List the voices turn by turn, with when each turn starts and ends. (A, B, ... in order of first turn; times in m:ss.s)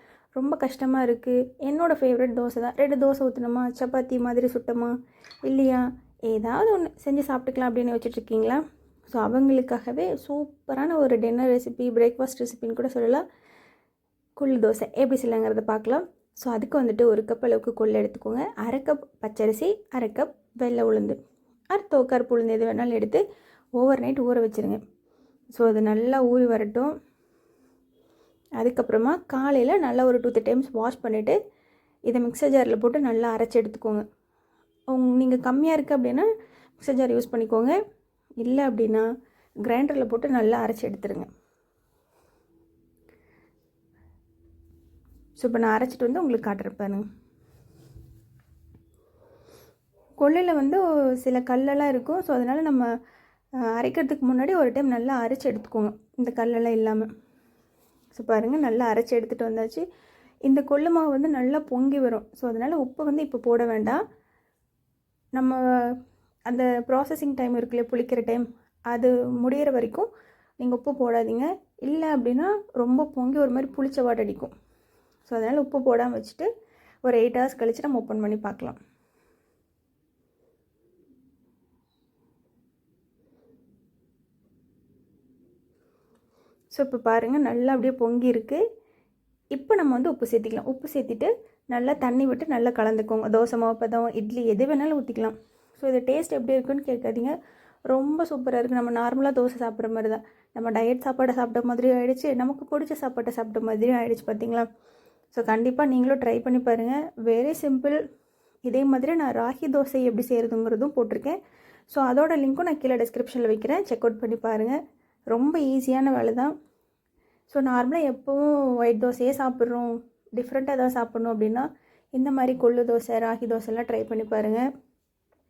0:00.4-0:04.9 A
0:05.4-0:13.2 A
0:14.4-0:21.2 A
0:21.7-0:23.2 A
0:23.8-0:24.8 A
0:25.5-0:26.9 A
0:28.6-0:31.4 A
0:32.1-0:34.0 A
0:34.9-0:37.8 A
0:38.4-0:39.0 A
0:39.6-0:41.3 A
0:45.4-0:47.0 A
0:50.2-0:52.9 A
0:53.7-0:57.1 A
0:58.1-0:59.8 A
1:00.5-1:04.0 A
1:05.3-1:06.0 A
1:06.5-1:14.5 A
1:15.3-1:16.5 A
1:17.0-1:18.8 A
1:26.7-1:28.6 A
1:29.5-1:37.3 A
1:37.9-1:44.7 A
1:45.3-1:48.0 A
1:48.6-1:51.4 A
1:51.9-1:54.8 A
1:55.3-1:56.5 A
1:57.5-2:04.6 A